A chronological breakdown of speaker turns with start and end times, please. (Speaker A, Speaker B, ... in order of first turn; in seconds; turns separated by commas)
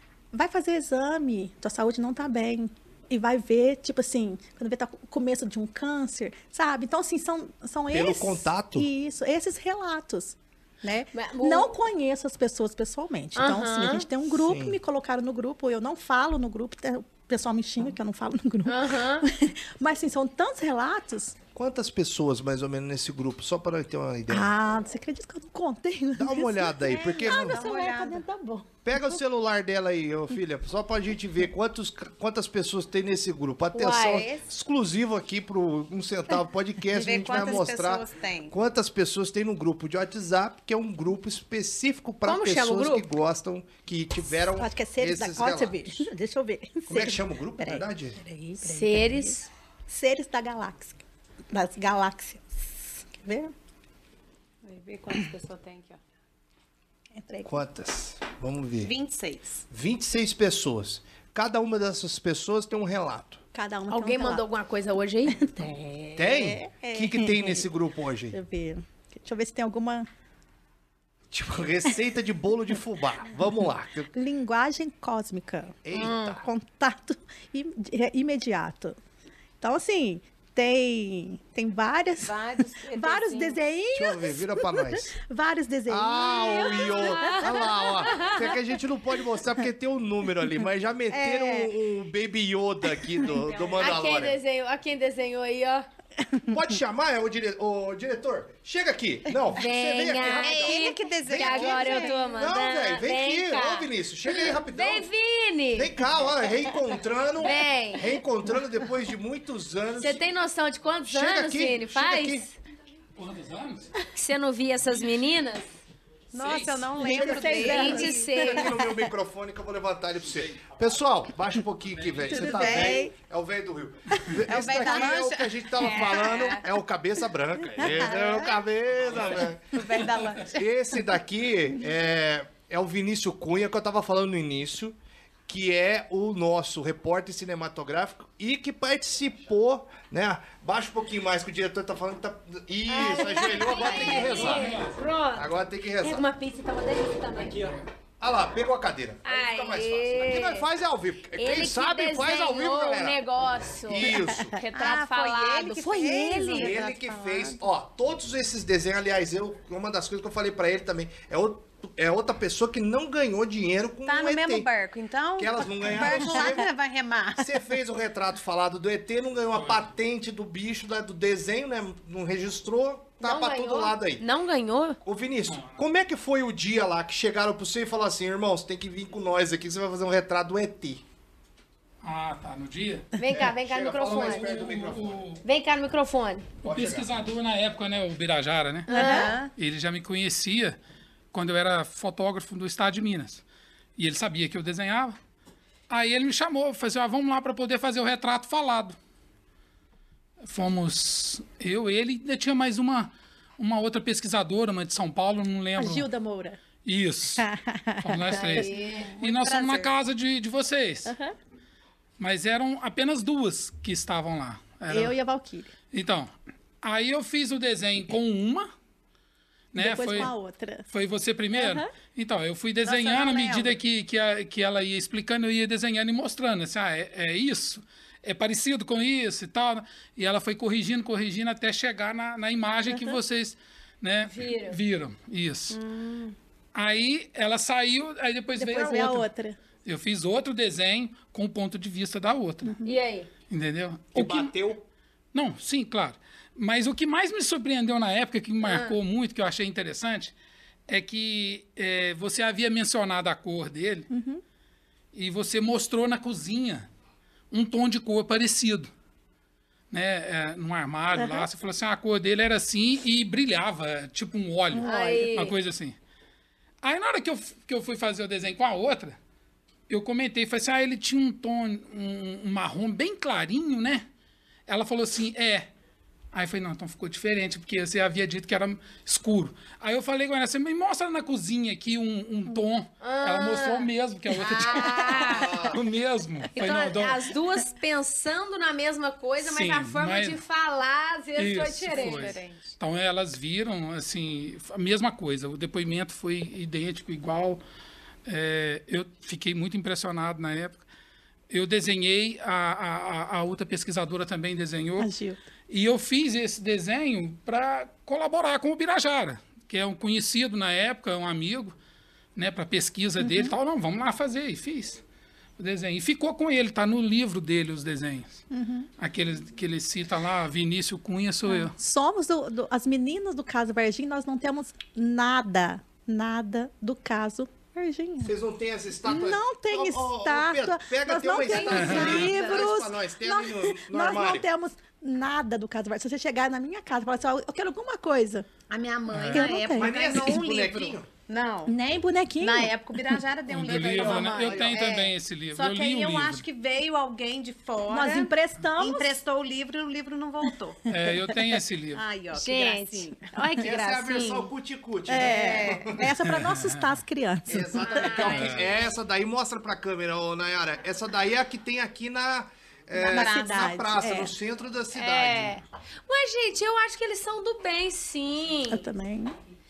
Speaker A: 0.3-21.4, Speaker B: 7.9-8.9, Speaker C: 11.1-11.7, Speaker C: 13.3-14.1, Speaker B: 14.3-14.8, Speaker C: 18.6-19.3, Speaker B: 21.5-24.5, Speaker A: 24.3-29.2, Speaker B: 26.1-27.6, Speaker D: 27.2-28.2, Speaker B: 28.8-46.1, Speaker C: 33.7-34.3, Speaker D: 34.1-34.3, Speaker D: 36.9-38.5, Speaker C: 42.2-43.1, Speaker A: 44.6-53.5, Speaker B: 46.9-48.2, Speaker C: 48.6-49.5, Speaker D: 54.6-56.0, Speaker A: 57.1-57.6, Speaker B: 57.5-58.9, Speaker D: 58.8-59.6, Speaker B: 59.7-63.4, Speaker A: 63.5-64.4, Speaker C: 63.9-65.4, Speaker A: 65.3-67.7, Speaker B: 66.2-68.4, Speaker A: 68.3-70.1, Speaker B: 71.3-74.1, Speaker A: 74.1-79.0, Speaker B: 75.8-76.4, Speaker C: 75.9-76.3, Speaker A: 79.6-82.4, Speaker D: 82.2-83.6, Speaker A: 82.9-87.8, Speaker B: 83.9-85.1, Speaker B: 85.9-94.4, Speaker C: 86.4-88.5, Speaker A: 91.1-91.7, Speaker D: 93.3-94.0, Speaker C: 93.8-95.9, Speaker B: 96.5-105.1, Speaker C: 99.5-106.0, Speaker D: 100.3-102.2, Speaker B: 105.7-110.2, Speaker C: 107.4-108.2, Speaker C: 110.0-112.5, Speaker B: 111.1-112.4, Speaker E: 113.2-113.9, Speaker C: 114.1-115.7, Speaker D: 116.3-118.3, Speaker E: 116.4-116.9, Speaker A: 117.0-119.0, Speaker B: 117.0-129.8, Speaker C: 117.3-118.7, Speaker E: 122.0-122.3, Speaker A: 122.3-123.1, Speaker D: 122.3-123.1, Speaker D: 124.5-126.5, Speaker C: 125.8-126.6, Speaker A: 127.8-128.2, Speaker D: 128.0-128.5, Speaker E: 129.1-129.4, Speaker D: 129.6-130.7, Speaker B: 130.5-135.0, Speaker B: 135.5-144.8, Speaker C: 142.9-147.8, Speaker E: 143.9-144.9, Speaker B: 145.3-146.2, Speaker B: 148.2-153.2, Speaker C: 149.2-150.7, Speaker C: 151.3-156.7, Speaker B: 153.8-154.6, Speaker D: 154.7-157.6, Speaker A: 156.1-156.6, Speaker B: 156.5-164.7, Speaker D: 164.1-167.6, Speaker B: 165.4-166.7, Speaker B: 167.4-174.2, Speaker E: 169.5-169.8, Speaker C: 173.2-175.0, Speaker B: 175.0-181.0, Speaker E: 175.5-175.8, Speaker E: 182.0-183.1, Speaker C: 183.2-184.6, Speaker B: 183.3-185.2, Speaker E: 184.1-185.4, Speaker C: 185.4-186.5, Speaker E: 186.6-190.8, Speaker B: 186.6-187.1, Speaker C: 188.9-189.3, Speaker D: 188.9-189.5, Speaker A: 188.9-189.3, Speaker E: 191.3-193.4, Speaker E: 194.0-195.2, Speaker E: 195.9-199.0, Speaker E: 200.4-206.1, Speaker A: 205.8-206.6, Speaker E: 206.8-207.4, Speaker A: 207.4-208.7, Speaker E: 208.0-211.1, Speaker C: 208.3-209.1, Speaker D: 209.1-209.9, Speaker A: 211.1-211.3, Speaker E: 212.2-215.2, Speaker A: 214.9-215.7, Speaker E: 215.9-218.7, Speaker E: 219.7-220.3, Speaker A: 219.8-220.9, Speaker E: 220.9-235.8, Speaker A: 221.5-221.9, Speaker D: 222.8-223.8, Speaker A: 232.8-233.2, Speaker C: 234.2-234.8, Speaker D: 235.7-236.3, Speaker E: 236.7-239.3, Speaker A: 238.6-239.6, Speaker E: 239.8-242.8, Speaker A: 242.6-242.9, Speaker C: 242.8-243.3, Speaker E: 243.5-244.5, Speaker B: 244.1-244.8, Speaker E: 245.3-250.3, Speaker C: 248.6-249.0, Speaker E: 250.9-254.1, Speaker A: 254.1-254.4, Speaker E: 255.1-256.9, Speaker E: 257.5-258.9, Speaker E: 259.9-265.9, Speaker A: 261.1-261.4, Speaker A: 264.7-265.3, Speaker C: 264.8-265.6, Speaker E: 266.8-269.2, Speaker E: 269.9-274.1, Speaker E: 274.7-275.7, Speaker E: 276.3-287.3, Speaker C: 283.0-285.6, Speaker B: 285.3-285.8, Speaker C: 286.5-292.3, Speaker E: 289.4-290.4, Speaker E: 291.4-297.6, Speaker D: 291.9-292.7, Speaker E: 298.2-300.8, Speaker E: 301.5-305.1, Speaker A: 305.0-305.4, Speaker E: 305.7-311.7, Speaker E: 312.4-315.0, Speaker A: 313.2-313.5, Speaker E: 315.6-318.4, Speaker A: 318.5-318.9, Speaker E: 319.0-321.7, Speaker A: 321.5-328.3, Speaker B: 328.2-334.5, Speaker A: 329.1-338.5, Speaker C: 331.5-332.6, Speaker E: 331.7-332.2, Speaker D: 338.7-341.7, Speaker E: 339.1-339.5, Speaker A: 339.3-340.1, Speaker B: 339.7-341.1, Speaker A: 341.7-343.2, Speaker D: 342.4-350.8, Speaker E: 343.5-346.4, Speaker B: 343.7-344.8, Speaker A: 347.9-349.2, Speaker E: 350.9-352.0, Speaker A: 350.9-351.5, Speaker D: 351.9-353.3, Speaker C: 352.3-354.5, Speaker B: 353.6-356.1, Speaker A: 355.1-358.4, Speaker D: 355.1-356.0, Speaker E: 356.2-357.0, Speaker B: 357.5-365.6, Speaker C: 357.8-358.6, Speaker E: 358.3-358.7, Speaker D: 362.9-363.7, Speaker A: 363.0-364.3, Speaker C: 364.9-368.9, Speaker A: 368.7-369.4